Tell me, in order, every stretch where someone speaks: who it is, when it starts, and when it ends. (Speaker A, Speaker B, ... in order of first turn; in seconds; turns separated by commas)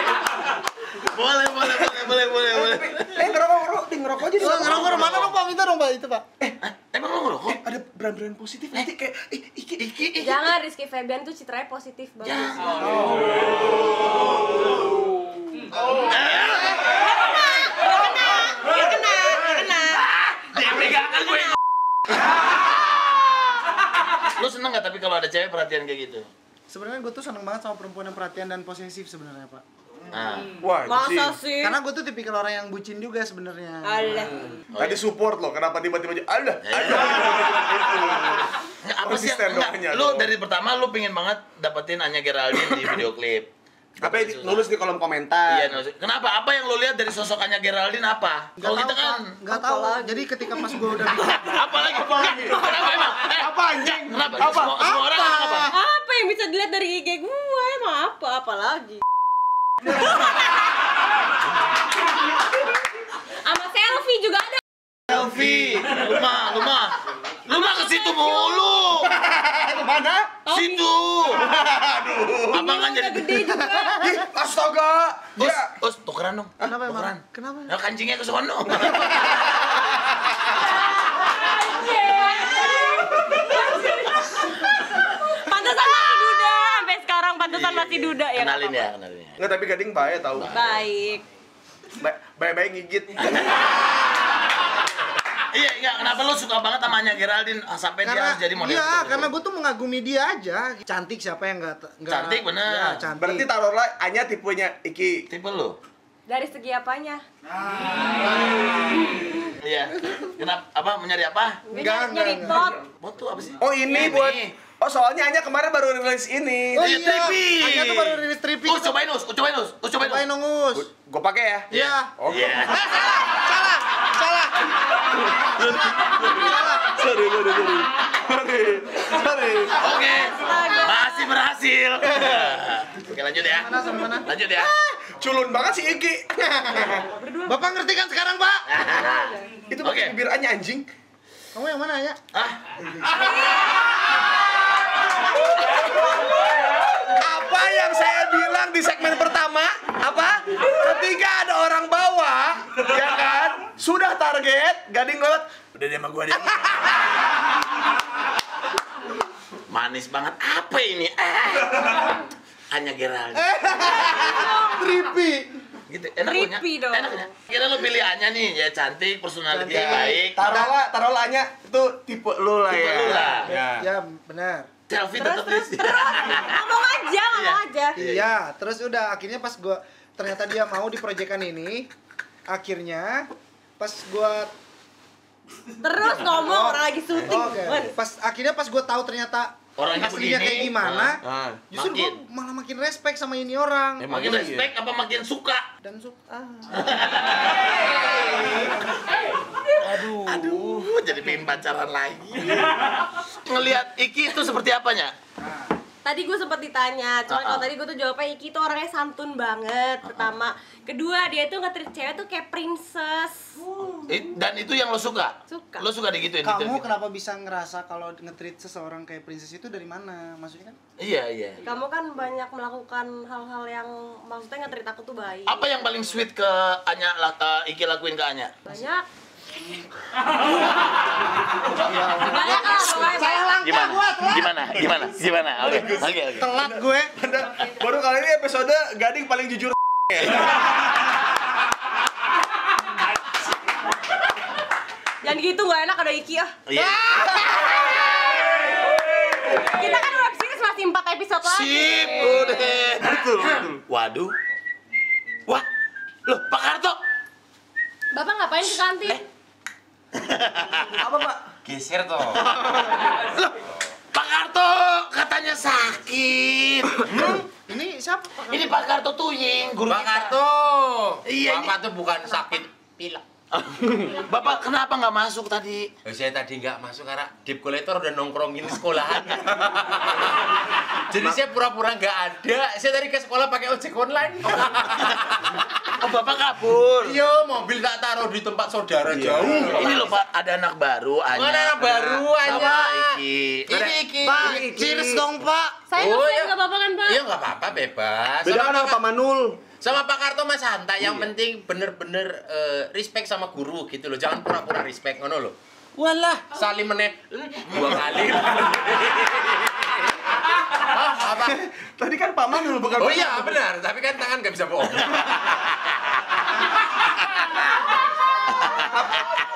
Speaker A: 1.0-3.2, Speaker B: 2.6-5.1, Speaker C: 4.2-5.3, Speaker D: 4.4-6.2, Speaker A: 4.6-5.3, Speaker A: 6.6-7.6, Speaker B: 7.5-9.8, Speaker A: 9.8-10.5, Speaker E: 10.2-13.1, Speaker A: 12.2-13.3, Speaker A: 16.0-16.9, Speaker E: 17.0-20.0, Speaker A: 20.1-21.5, Speaker A: 24.4-26.3, Speaker D: 26.7-29.6, Speaker A: 30.1-30.6, Speaker B: 30.6-31.3, Speaker E: 30.9-31.8, Speaker D: 31.6-34.1, Speaker E: 33.8-34.5, Speaker A: 34.7-35.0, Speaker B: 34.8-38.5, Speaker A: 36.6-37.6, Speaker A: 38.8-43.5, Speaker B: 39.1-40.2, Speaker A: 44.0-44.6, Speaker B: 44.0-45.5, Speaker A: 45.5-49.4, Speaker D: 48.6-52.3, Speaker E: 49.5-50.2, Speaker A: 51.1-55.7, Speaker B: 52.1-54.7, Speaker D: 54.8-55.7, Speaker E: 55.7-59.0, Speaker E: 59.9-60.6, Speaker E: 63.4-64.6, Speaker B: 65.1-65.8, Speaker A: 65.1-69.1, Speaker E: 67.8-68.7, Speaker B: 69.3-70.2, Speaker E: 70.5-70.8, Speaker A: 70.5-71.5, Speaker B: 71.6-72.5, Speaker A: 72.5-73.4, Speaker E: 72.5-74.2, Speaker B: 74.1-75.6, Speaker A: 75.4-79.4, Speaker D: 76.7-77.7, Speaker E: 81.2-88.9, Speaker A: 87.5-89.4, Speaker B: 89.4-90.4, Speaker A: 90.3-90.8, Speaker E: 90.5-91.2, Speaker B: 92.0-93.5, Speaker A: 93.2-93.7, Speaker A: 95.5-99.3, Speaker D: 98.0-103.5, Speaker A: 102.1-103.0, Speaker C: 103.2-103.5, Speaker B: 103.2-105.1, Speaker A: 105.3-105.8, Speaker E: 106.3-107.2, Speaker F: 108.0-109.0, Speaker A: 109.6-111.6, Speaker E: 111.7-112.8, Speaker D: 111.7-112.6, Speaker A: 112.9-114.5, Speaker B: 113.6-116.8, Speaker C: 113.6-114.2, Speaker D: 116.8-118.9, Speaker A: 116.8-120.2, Speaker D: 120.0-120.8, Speaker B: 120.8-121.7, Speaker D: 121.7-122.1, Speaker A: 121.7-123.1, Speaker D: 122.7-124.7, Speaker D: 125.5-126.9, Speaker A: 125.6-126.3, Speaker B: 126.9-129.8, Speaker A: 129.8-133.7, Speaker E: 130.1-131.3, Speaker D: 133.4-134.2, Speaker A: 134.3-134.7, Speaker B: 134.7-137.1, Speaker E: 137.2-137.6, Speaker D: 137.5-138.6, Speaker A: 138.7-140.2, Speaker E: 138.8-139.6, Speaker B: 139.7-140.9, Speaker D: 141.6-142.2, Speaker A: 142.3-143.3, Speaker E: 143.1-144.1, Speaker B: 147.1-155.4, Speaker C: 147.3-148.4, Speaker C: 148.9-151.3, Speaker C: 152.1-152.8, Speaker C: 153.6-154.2, Speaker A: 155.8-156.9, Speaker A: 159.7-162.2, Speaker A: 162.7-163.4, Speaker D: 163.4-165.4, Speaker E: 164.2-164.7, Speaker A: 165.9-170.7, Speaker E: 166.3-167.3, Speaker D: 169.6-170.7, Speaker C: 169.6-170.9, Speaker B: 170.4-173.8, Speaker C: 171.5-173.9, Speaker A: 172.7-173.5, Speaker D: 173.8-174.7, Speaker A: 174.9-176.7, Speaker E: 175.2-178.0, Speaker A: 177.3-178.3, Speaker D: 178.0-181.9, Speaker D: 182.5-183.3, Speaker D: 183.8-184.5, Speaker E: 185.8-187.9, Speaker D: 186.4-191.2, Speaker A: 189.8-191.2, Speaker B: 191.3-191.6, Speaker A: 191.7-192.2, Speaker D: 191.7-194.1, Speaker C: 194.0-194.4, Speaker B: 194.0-194.7, Speaker A: 194.1-195.7, Speaker D: 195.8-196.2, Speaker A: 196.7-198.5, Speaker B: 199.8-200.9, Speaker A: 200.1-202.9, Speaker A: 203.5-205.1, Speaker E: 206.1-213.6, Speaker A: 207.3-207.7, Speaker A: 210.1-210.3, Speaker A: 213.9-216.9, Speaker E: 215.5-215.9, Speaker D: 216.4-220.8, Speaker A: 221.0-221.7, Speaker E: 221.6-225.7, Speaker A: 225.5-228.6, Speaker E: 228.7-229.1, Speaker D: 231.8-234.5, Speaker E: 232.2-233.7, Speaker A: 233.6-236.5, Speaker C: 236.4-237.1, Speaker D: 236.4-237.1, Speaker B: 237.2-240.5, Speaker E: 245.2-246.6, Speaker A: 246.7-247.8, Speaker E: 247.9-248.6, Speaker E: 249.6-252.6, Speaker A: 251.4-254.3, Speaker B: 253.0-253.7, Speaker A: 256.3-257.0, Speaker E: 258.1-259.2, Speaker A: 260.2-261.0, Speaker C: 261.0-261.4, Speaker F: 261.6-262.6, Speaker A: 262.4-263.6, Speaker A: 264.1-267.4, Speaker D: 267.2-268.3, Speaker A: 268.5-270.4, Speaker F: 269.9-273.2, Speaker A: 271.3-271.8, Speaker A: 273.5-275.9, Speaker F: 276.1-280.6, Speaker F: 281.1-285.6, Speaker A: 286.0-287.2, Speaker F: 287.0-290.1, Speaker B: 289.2-289.8, Speaker A: 289.7-293.7, Speaker F: 291.3-294.6, Speaker C: 294.2-295.3, Speaker D: 294.3-295.7, Speaker B: 294.4-295.2, Speaker E: 295.9-297.2, Speaker F: 296.0-296.5, Speaker F: 297.1-299.0, Speaker C: 298.5-299.4, Speaker F: 299.8-310.2, Speaker A: 307.7-308.4, Speaker F: 310.7-311.6, Speaker C: 312.0-313.4, Speaker B: 312.0-312.9, Speaker F: 313.0-315.3